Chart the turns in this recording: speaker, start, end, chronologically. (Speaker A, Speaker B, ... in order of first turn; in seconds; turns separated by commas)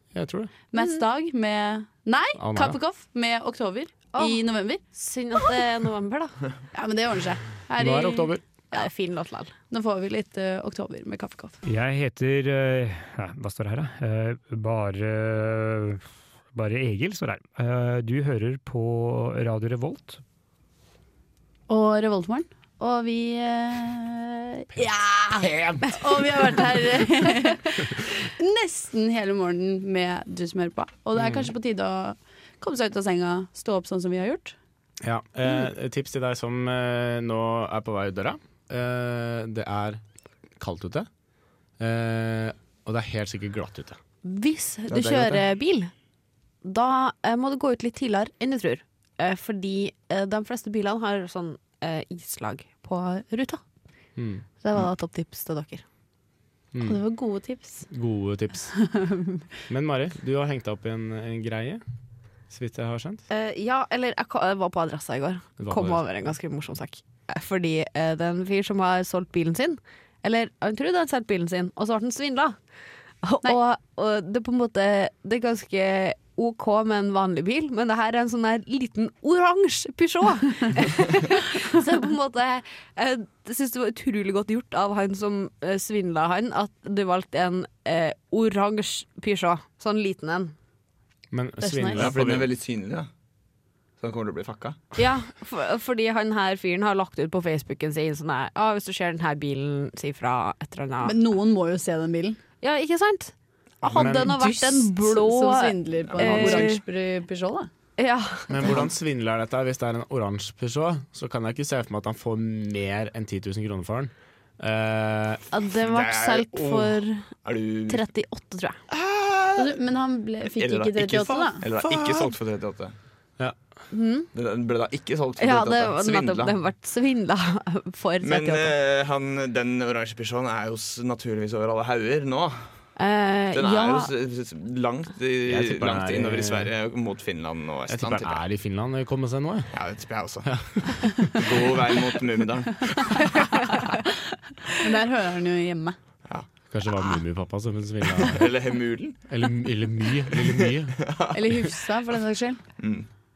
Speaker A: 0.1-0.5, Speaker B: 0.7-4.8, Speaker A: 2.4-2.8, Speaker C: 4.1-6.5, Speaker B: 6.7-8.9, Speaker A: 7.8-8.4, Speaker C: 8.7-9.6, Speaker B: 9.7-11.6, Speaker D: 11.6-20.2, Speaker B: 21.7-34.6, Speaker A: 24.8-26.7, Speaker A: 31.2-31.5, Speaker A: 35.0-40.0, Speaker A: 40.6-41.1, Speaker A: 41.8-44.0, Speaker C: 44.2-45.9, Speaker E: 44.9-45.2, Speaker C: 46.6-53.6, Speaker A: 54.2-54.5, Speaker C: 54.6-55.8, Speaker A: 56.7-57.0, Speaker B: 56.8-57.9, Speaker A: 57.9-58.7, Speaker B: 58.7-59.4, Speaker A: 59.7-61.8, Speaker A: 62.5-63.2, Speaker C: 63.3-72.6, Speaker A: 65.6-66.0, Speaker C: 73.2-90.5, Speaker A: 91.3-92.5, Speaker B: 91.6-92.1, Speaker E: 91.9-93.1, Speaker E: 94.0-94.8, Speaker C: 95.0-101.1, Speaker B: 101.0-102.4, Speaker C: 102.6-106.8, Speaker A: 103.8-104.4, Speaker B: 104.2-107.7, Speaker E: 106.1-106.6, Speaker C: 108.0-108.8, Speaker A: 108.5-115.5, Speaker C: 115.5-117.3, Speaker E: 115.8-116.9, Speaker E: 117.5-118.1, Speaker C: 117.9-118.8, Speaker E: 118.9-119.8, Speaker B: 119.6-121.6, Speaker E: 120.5-123.0, Speaker A: 121.8-122.3, Speaker C: 123.9-124.3, Speaker E: 124.3-126.6, Speaker C: 125.4-128.8, Speaker E: 128.2-132.7, Speaker C: 133.0-134.1, Speaker E: 133.5-138.4, Speaker A: 135.5-136.7, Speaker A: 137.9-139.7, Speaker E: 139.7-140.5, Speaker A: 140.5-141.4, Speaker E: 141.3-143.0, Speaker B: 143.6-144.1, Speaker B: 144.7-146.0, Speaker A: 146.7-148.5, Speaker E: 148.2-149.2, Speaker A: 149.3-151.0, Speaker E: 150.3-151.7, Speaker B: 151.3-152.6, Speaker E: 152.8-153.1